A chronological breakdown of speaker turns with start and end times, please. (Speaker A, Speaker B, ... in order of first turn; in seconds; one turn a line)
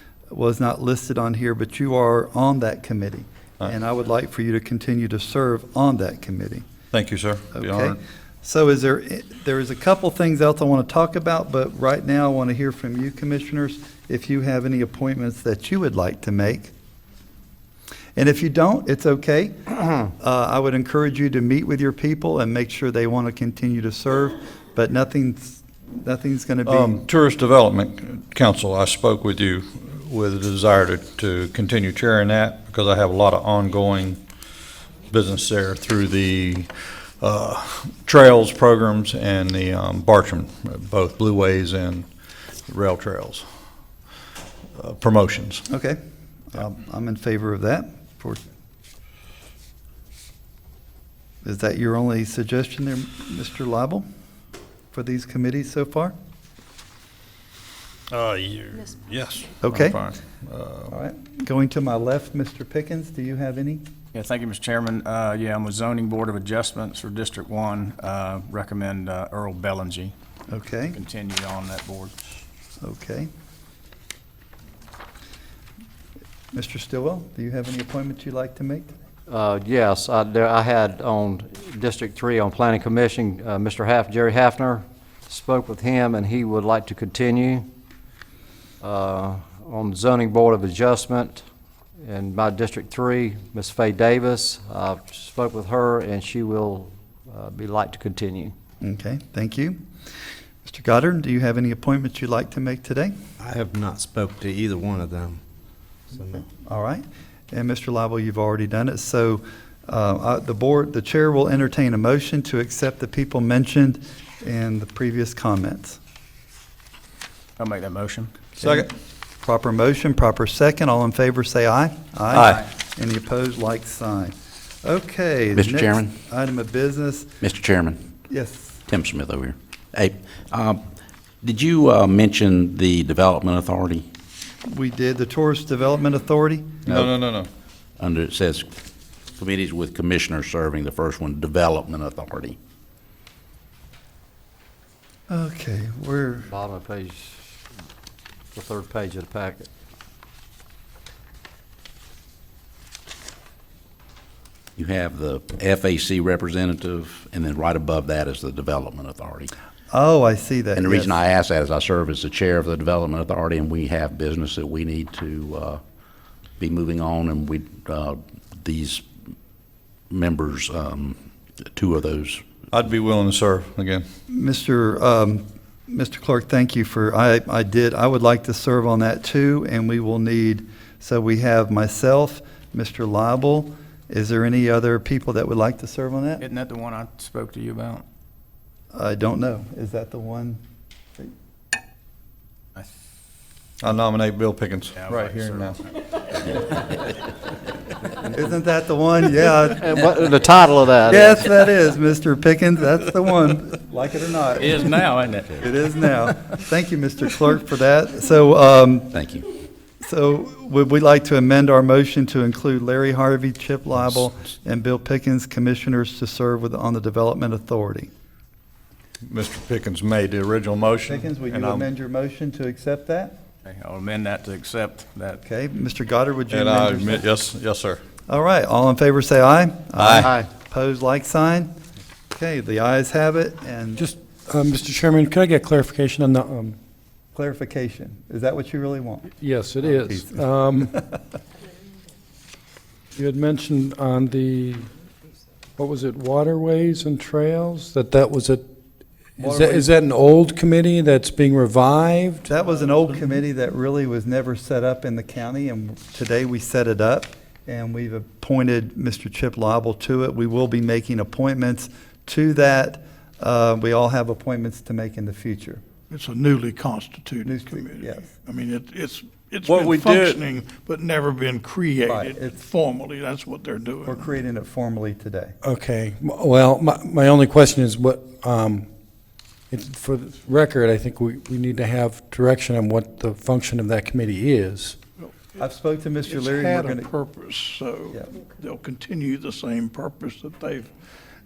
Speaker A: 0.3-6.7
Speaker B: 6.9-8.0
Speaker A: 7.5-16.7
Speaker A: 18.2-27.0
Speaker B: 26.6-34.2
Speaker B: 35.1-42.1
Speaker B: 42.7-43.5
Speaker B: 44.8-45.7
Speaker A: 45.7-46.0
Speaker A: 46.5-48.4
Speaker A: 51.4-54.0
Speaker A: 54.9-56.1
Speaker B: 58.1-61.0
Speaker A: 59.6-60.0
Speaker A: 60.9-63.9
Speaker C: 64.1-70.1
Speaker A: 70.5-71.0
Speaker C: 70.9-72.2
Speaker A: 72.8-73.3
Speaker A: 76.5-78.9
Speaker D: 79.3-87.7
Speaker D: 88.8-91.5
Speaker D: 92.0-98.5
Speaker A: 98.8-99.8
Speaker A: 100.6-103.2
Speaker E: 103.4-105.4
Speaker A: 106.5-116.0
Speaker C: 117.6-118.4
Speaker A: 118.6-127.3
Speaker B: 122.3-122.7
Speaker F: 125.5-126.2
Speaker F: 127.4-128.0
Speaker A: 128.3-128.8
Speaker F: 128.9-130.8
Speaker F: 131.4-134.0
Speaker A: 134.7-137.1
Speaker B: 136.9-137.5
Speaker F: 138.0-138.7
Speaker F: 139.4-142.6
Speaker A: 145.3-146.5
Speaker D: 146.5-147.6
Speaker D: 148.5-149.7
Speaker F: 154.8-159.5
Speaker A: 159.9-161.2
Speaker F: 160.8-165.8
Speaker F: 166.6-169.1
Speaker F: 170.1-171.2
Speaker F: 171.7-172.4
Speaker B: 172.7-174.1
Speaker A: 174.3-186.4
Speaker C: 186.4-188.0
Speaker A: 188.9-190.6
Speaker B: 193.8-195.8
Speaker C: 195.0-195.8
Speaker C: 196.6-196.8
Speaker A: 198.3-199.9
Speaker D: 199.7-201.6
Speaker A: 201.1-205.0
Speaker C: 204.6-205.7
Speaker A: 205.6-209.2
Speaker F: 209.1-209.4
Speaker A: 210.0-218.1
Speaker B: 219.2-221.9
Speaker A: 221.1-223.4
Speaker C: 223.7-225.4
Speaker A: 225.4-227.3
Speaker B: 226.5-228.0
Speaker A: 228.3-231.7
Speaker B: 230.0-230.3
Speaker A: 232.3-234.1
Speaker G: 234.0-236.8
Speaker A: 237.3-240.3
Speaker G: 239.4-241.1
Speaker G: 243.2-244.9
Speaker G: 245.8-248.7
Speaker G: 249.4-252.5
Speaker A: 249.4-249.9
Speaker A: 252.5-265.8
Speaker H: 266.1-274.4
Speaker A: 267.4-268.3
Speaker F: 269.7-270.4
Speaker A: 272.1-272.6
Speaker A: 274.1-275.6
Speaker G: 275.6-278.9
Speaker G: 279.7-285.0
Speaker A: 285.6-287.1
Speaker H: 286.3-290.9